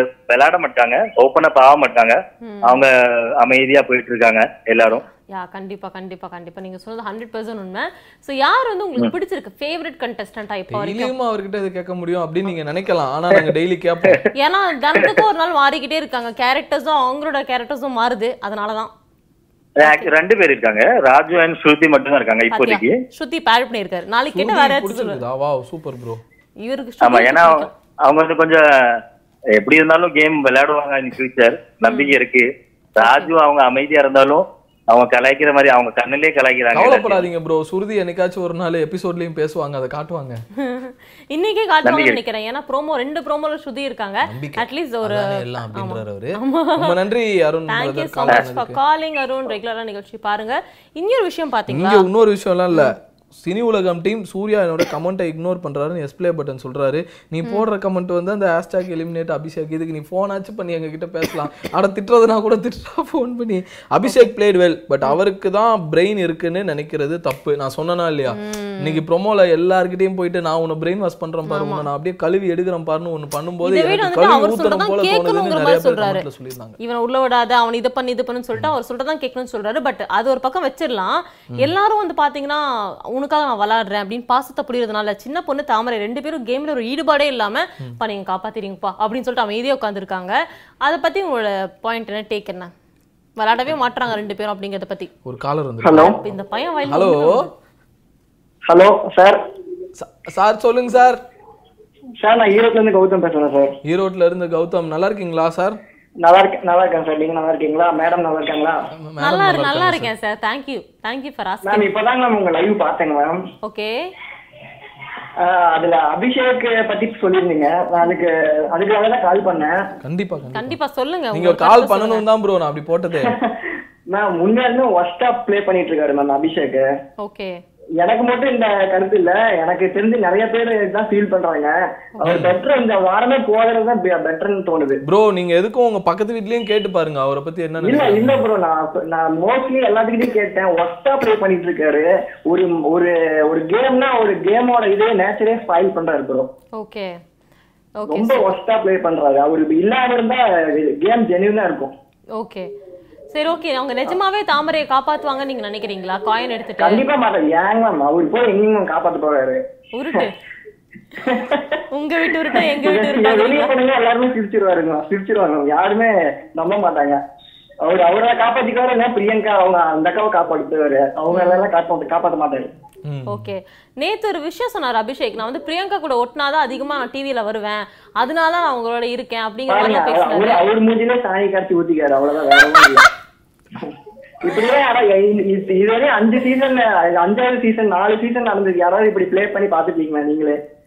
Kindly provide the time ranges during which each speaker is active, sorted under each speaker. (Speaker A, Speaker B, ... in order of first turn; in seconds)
Speaker A: 0.3-5.0, 19.8-23.0, 27.0-29.0, 29.6-32.5, 33.0-37.2, 41.8-42.2
Speaker B: 2.4-2.8, 5.3-11.1, 14.3-18.9, 19.8-20.1, 22.5-25.2, 26.6-27.7, 31.9-32.1, 33.0-33.3, 40.6-46.9, 47.7-52.0, 68.3-69.0, 71.5-71.9, 73.6-76.2, 76.8-92.7, 93.4-95.1, 95.9-97.5, 109.2-111.9, 113.6-113.9, 120.5-122.2, 127.2-127.5, 146.8-147.2, 148.0-148.4, 152.3-152.7, 153.3-157.0, 159.9-160.3, 161.9-163.7, 171.3-171.7, 173.3-180.6
Speaker C: 10.7-14.2, 24.3-26.2, 36.7-40.4, 44.2-48.8, 51.7-76.8, 95.2-96.2, 96.9-97.5, 99.9-101.2, 103.8-105.8, 109.0-110.1, 120.0-120.8, 121.3-123.3, 132.2-132.5, 135.0-138.4, 173.1-173.5
Speaker D: 95.8-96.2, 98.7-99.4, 102.2-103.7, 106.2-108.8, 111.7-113.4, 115.4-119.8, 123.2-123.5, 124.1-126.8, 128.0-135.0, 137.8-146.5, 148.1-151.9, 156.8-159.6, 161.2-161.8, 162.5-167.2, 167.8-172.7, 179.7-183.1, 183.8-190.6